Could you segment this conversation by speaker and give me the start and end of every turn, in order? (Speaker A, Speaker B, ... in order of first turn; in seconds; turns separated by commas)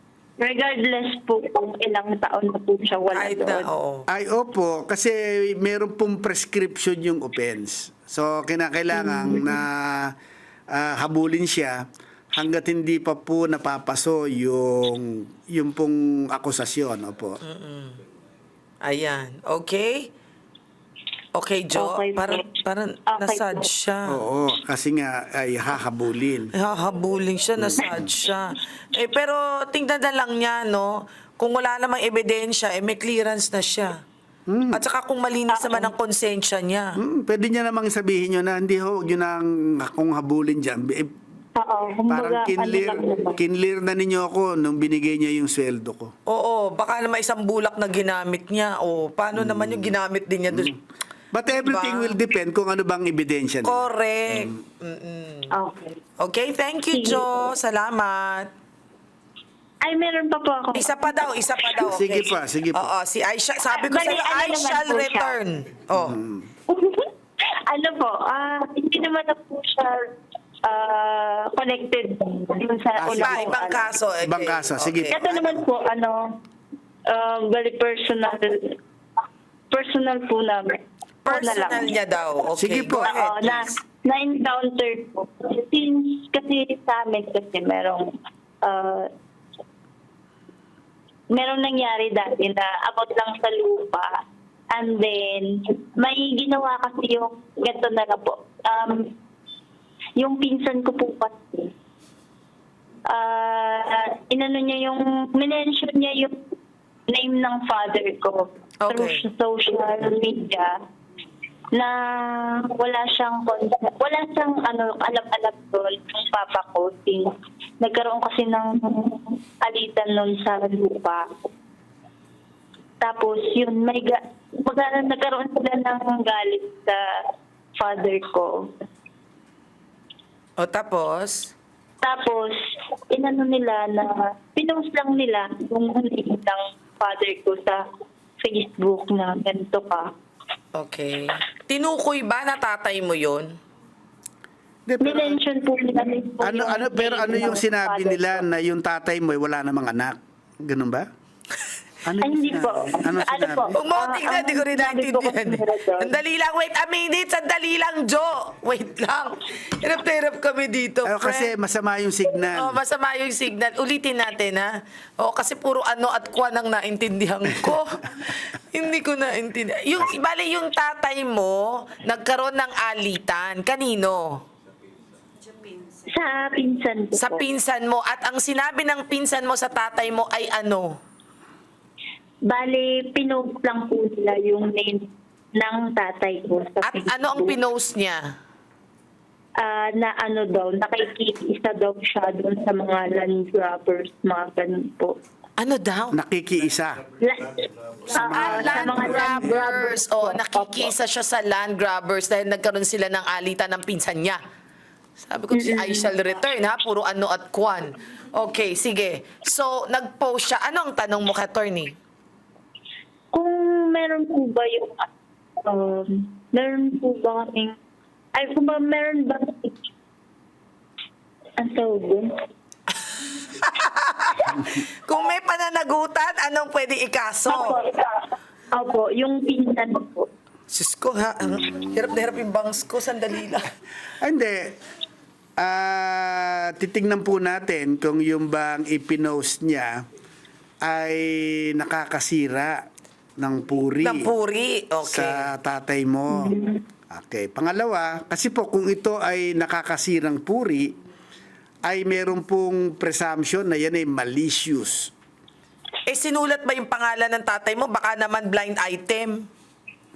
Speaker A: 0.4-3.7, Speaker B: 3.1-4.1, Speaker C: 4.1-10.2, Speaker A: 8.9-9.6, Speaker C: 10.7-17.4, Speaker B: 17.4-18.0, Speaker B: 18.8-20.1, Speaker B: 21.4-24.2, Speaker A: 21.8-22.5, Speaker A: 23.1-23.7, Speaker C: 24.1-26.5, Speaker B: 26.5-34.0, Speaker C: 27.6-28.1, Speaker C: 34.5-34.8, Speaker B: 34.7-37.0, Speaker A: 35.5-35.9, Speaker C: 37.0-41.1, Speaker A: 41.6-43.4, Speaker C: 42.1-46.1, Speaker B: 46.3-50.8, Speaker C: 49.4-50.0, Speaker C: 51.3-54.5, Speaker B: 51.5-52.2, Speaker B: 53.6-55.5, Speaker A: 55.5-56.0, Speaker B: 56.2-58.5, Speaker A: 56.9-57.5, Speaker A: 59.8-61.3, Speaker B: 60.7-66.2, Speaker C: 61.8-62.9, Speaker A: 63.7-65.4, Speaker C: 65.9-66.5, Speaker A: 66.7-70.1, Speaker A: 70.6-73.9, Speaker C: 73.0-73.5, Speaker B: 73.2-75.4, Speaker C: 74.2-75.6, Speaker A: 75.1-76.4, Speaker A: 77.1-78.8, Speaker A: 79.7-82.0, Speaker B: 81.3-83.8, Speaker C: 82.5-83.1, Speaker A: 83.0-89.1, Speaker A: 91.3-99.1, Speaker A: 100.2-101.7, Speaker A: 103.1-106.4, Speaker A: 107.1-110.8, Speaker B: 108.8-109.2, Speaker A: 111.7-121.3, Speaker A: 123.0-127.0, Speaker A: 127.8-128.7, Speaker B: 130.6-131.5, Speaker A: 132.0-137.8, Speaker A: 138.4-140.1, Speaker B: 140.7-143.6, Speaker C: 144.9-145.4, Speaker A: 145.0-148.4, Speaker C: 146.4-151.1, Speaker C: 152.0-153.7, Speaker A: 152.2-156.1, Speaker B: 153.7-161.5, Speaker C: 161.1-162.8, Speaker B: 162.5-174.4, Speaker A: 176.0-177.4, Speaker B: 177.2-181.0, Speaker A: 182.5-187.6, Speaker B: 186.8-188.3, Speaker A: 189.6-195.2, Speaker B: 195.6-196.2, Speaker C: 196.1-197.0, Speaker A: 197.2-200.9, Speaker B: 198.1-204.4, Speaker C: 198.2-199.6, Speaker B: 205.2-211.9, Speaker A: 205.5-206.1, Speaker A: 213.3-217.8, Speaker A: 218.3-219.8, Speaker A: 221.6-222.3, Speaker B: 223.5-227.8, Speaker A: 227.5-230.3, Speaker B: 230.7-233.7, Speaker C: 231.4-232.4, Speaker C: 234.2-234.8, Speaker C: 235.6-240.1, Speaker C: 240.8-242.9, Speaker C: 243.4-244.3, Speaker B: 244.0-245.5, Speaker C: 245.0-246.6, Speaker A: 246.3-246.8, Speaker C: 247.1-251.0, Speaker C: 251.8-255.1, Speaker B: 256.1-259.5